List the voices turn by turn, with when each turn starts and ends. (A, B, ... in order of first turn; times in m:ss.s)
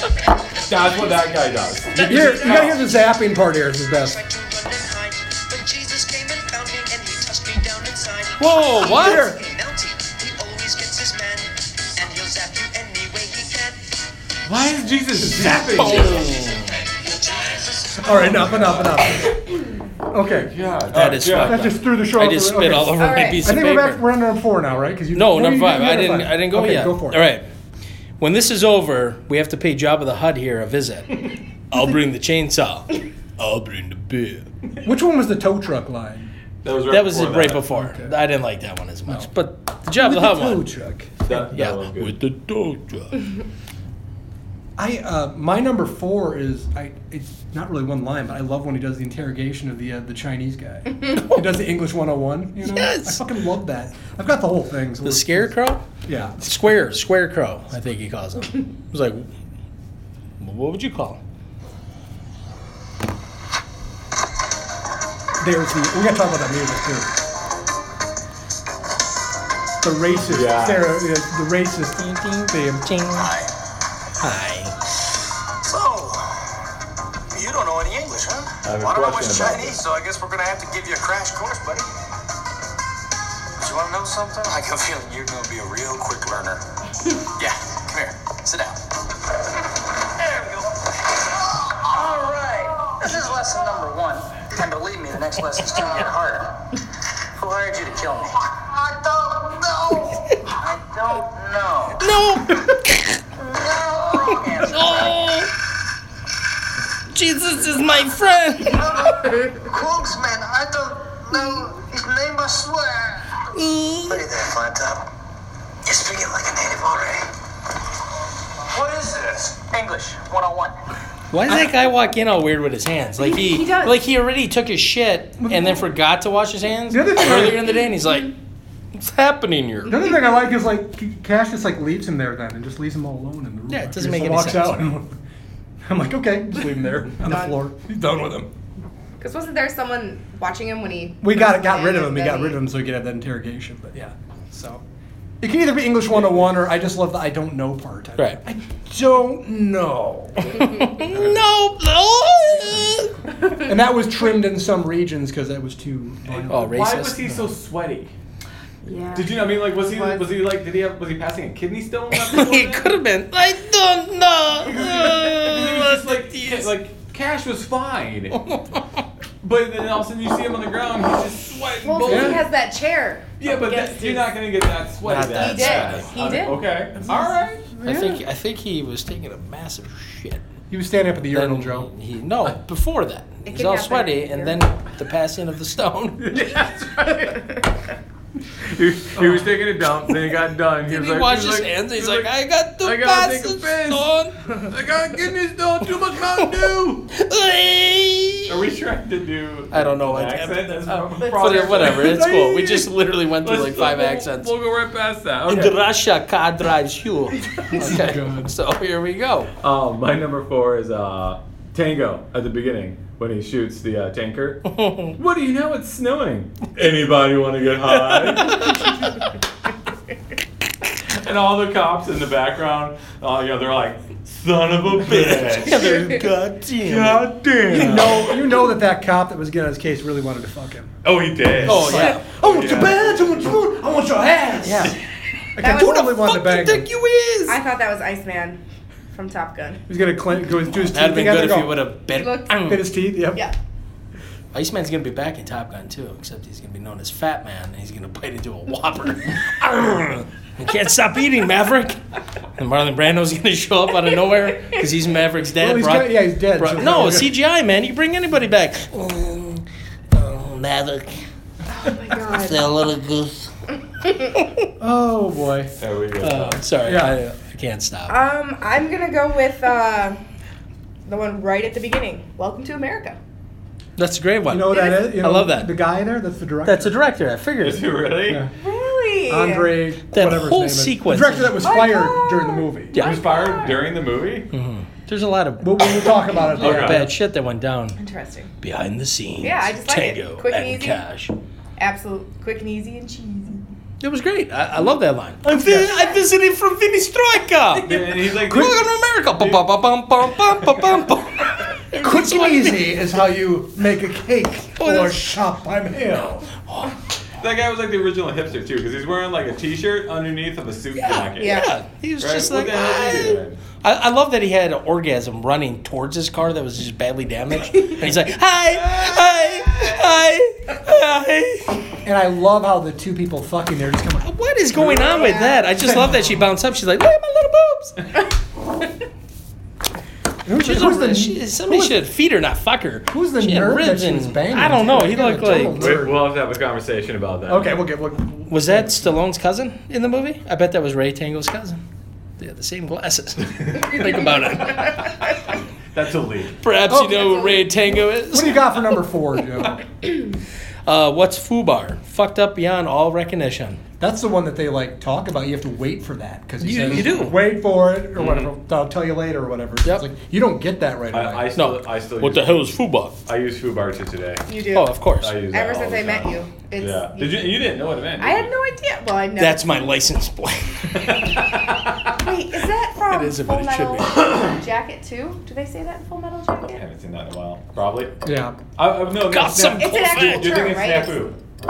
0:00.7-0:02.8 A
0:02.0-0:04.2 B
0:04.0-0:13.8 C
0:08.4-0:09.3 D
0:08.8-0:09.4 B
0:14.5-0:16.3 A
0:15.7-0:16.8 D
0:15.8-0:18.8 C
0:18.0-0:19.4 B
0:18.3-0:18.9 A
0:20.1-0:20.5 B
0:20.3-0:21.7 A
0:20.9-0:24.0 D
0:21.2-0:27.3 B
0:23.0-0:23.5 E
0:25.1-0:27.5 D
0:28.2-0:34.5 D
0:34.8-0:36.3 B
0:36.6-0:37.7 A
0:36.9-0:40.7 D
0:37.7-0:38.1 B
0:39.9-0:41.4 B
0:41.2-0:42.2 A
0:41.5-0:43.2 D
0:44.8-0:56.7 B
0:51.2-0:51.4 D
0:52.6-0:53.2 D
0:55.0-0:55.8 D
0:56.4-0:59.3 D
1:00.4-1:01.2 D
1:05.4-1:07.1 B
1:09.8-1:13.0 B
1:10.2-1:11.0 A
1:12.0-1:13.3 D
1:13.1-1:13.5 F
1:14.2-1:14.7 D
1:15.6-1:16.5 F
1:17.3-1:21.9 F
1:18.6-1:19.8 A
1:23.6-1:26.6 F
1:27.4-1:28.8 F
1:30.1-1:36.5 F
1:37.3-1:42.0 F
1:42.0-1:43.2 D
1:43.4-1:45.3 F
1:44.3-1:45.5 D
1:47.1-1:48.9 D
1:48.6-1:53.3 F
1:53.5-1:54.2 D
1:54.0-1:55.1 F
1:55.8-1:57.3 F
1:58.7-2:00.7 F
2:01.3-2:08.3 D
2:03.2-2:04.0 E
2:05.4-2:05.9 B
2:06.9-2:07.8 B
2:08.9-2:10.0 D
2:09.8-2:15.2 B
2:13.7-2:14.9 D
2:15.8-2:18.5 B
2:17.2-2:17.6 E
2:19.2-2:22.6 E
2:21.2-2:24.8 B
2:25.4-2:31.4 B
2:30.5-2:33.1 D
2:33.6-2:37.5 B
2:36.3-2:38.1 A
2:36.5-2:37.2 D
2:38.8-2:40.3 E
2:39.1-2:43.0 A
2:42.2-2:46.7 D
2:44.6-2:48.4 A
2:48.3-2:48.8 D
2:49.4-2:52.5 A
2:51.8-2:54.4 E
2:52.0-2:52.4 B
2:53.4-2:57.7 A
2:55.0-2:56.1 D
2:55.4-2:56.6 E
2:57.0-2:58.2 B
2:57.8-3:00.4 D
3:00.7-3:01.9 B
3:01.3-3:06.4 D
3:03.4-3:04.6 E
3:06.2-3:07.4 A
3:07.0-3:07.6 E
3:08.6-3:17.1 A
3:09.2-3:09.4 B
3:10.8-3:14.7 D
3:16.4-3:18.5 D
3:18.5-3:22.4 A
3:19.7-3:24.5 D
3:21.2-3:22.0 E
3:21.8-3:22.9 B
3:23.4-3:25.8 A
3:25.5-3:29.5 D
3:27.6-3:28.5 B
3:29.6-3:38.9 A
3:34.7-3:35.2 D
3:38.3-3:38.8 D
3:41.1-3:46.0 A
3:45.0-3:48.0 D
3:45.8-3:46.2 E
3:46.8-3:48.4 A
3:47.7-3:50.9 B
3:51.0-3:53.2 A
3:51.5-3:55.0 B
3:51.6-3:52.2 D
3:54.6-3:55.0 D
3:55.6-3:56.9 B
3:55.6-3:56.0 E
3:55.6-3:57.6 D
3:57.4-3:58.6 E
3:59.1-3:59.8 E
3:59.9-4:01.9 B
4:00.8-4:02.8 D
4:02.1-4:02.7 E
4:02.6-4:03.4 B
4:04.5-4:12.0 D
4:12.6-4:21.2 D
4:15.6-4:17.3 B
4:21.7-4:22.7 E
4:22.2-4:23.5 D
4:24.4-4:24.6 D
4:24.8-4:25.7 B
4:25.8-4:26.6 A
4:26.2-4:28.2 D
4:26.8-4:27.2 B
4:28.1-4:30.2 E
4:31.0-4:33.2 E
4:34.0-4:35.7 D
4:34.5-4:37.0 B
4:34.7-4:35.0 E
4:36.6-4:37.9 D
4:37.6-4:38.4 A
4:38.6-4:39.8 E
4:39.3-4:43.0 B
4:40.1-4:41.6 D
4:41.6-4:43.9 E
4:42.9-4:43.2 D
4:43.0-4:44.5 A
4:44.5-4:48.0 D
4:45.6-4:47.1 B
4:46.6-4:47.1 A
4:48.0-4:48.5 E
4:48.6-4:51.3 D
4:49.4-4:51.0 E
4:51.8-4:53.7 E
4:54.0-5:03.0 D
4:55.4-4:56.0 B
4:57.8-4:59.7 A
5:01.9-5:06.5 B
5:04.8-5:05.4 D
5:06.7-5:06.9 D
5:07.4-5:11.7 A
5:10.9-5:21.8 D
5:11.4-5:11.7 E
5:12.2-5:13.6 A
5:18.8-5:20.0 A
5:22.0-5:26.5 B
5:24.2-5:28.0 D
5:25.1-5:25.7 E
5:30.4-5:32.0 B
5:30.6-5:35.9 D
5:33.1-5:36.3 B
5:35.7-5:37.9 A
5:37.5-5:39.1 B
5:38.5-5:41.8 D
5:42.4-5:45.0 D
5:43.7-5:44.0 A
5:43.8-5:45.5 E
5:45.9-5:46.6 A
5:46.6-5:48.8 D
5:46.9-5:49.8 B
5:47.2-5:47.6 E
5:50.8-5:53.8 D
5:54.0-6:01.5 B
5:56.6-5:57.4 D
5:56.8-5:57.3 A
5:58.2-5:58.5 A
6:01.1-6:04.4 A
6:01.5-6:03.2 D
6:04.5-6:10.0 E
6:04.7-6:05.4 D
6:05.2-6:08.5 A
6:09.4-6:11.0 D
6:10.9-6:12.1 A
6:12.1-6:16.8 E
6:13.1-6:14.2 D
6:16.7-6:18.2 A
6:18.2-6:18.6 B
6:18.8-6:21.3 A
6:19.2-6:20.6 D
6:19.5-6:19.8 B
6:19.8-6:21.3 E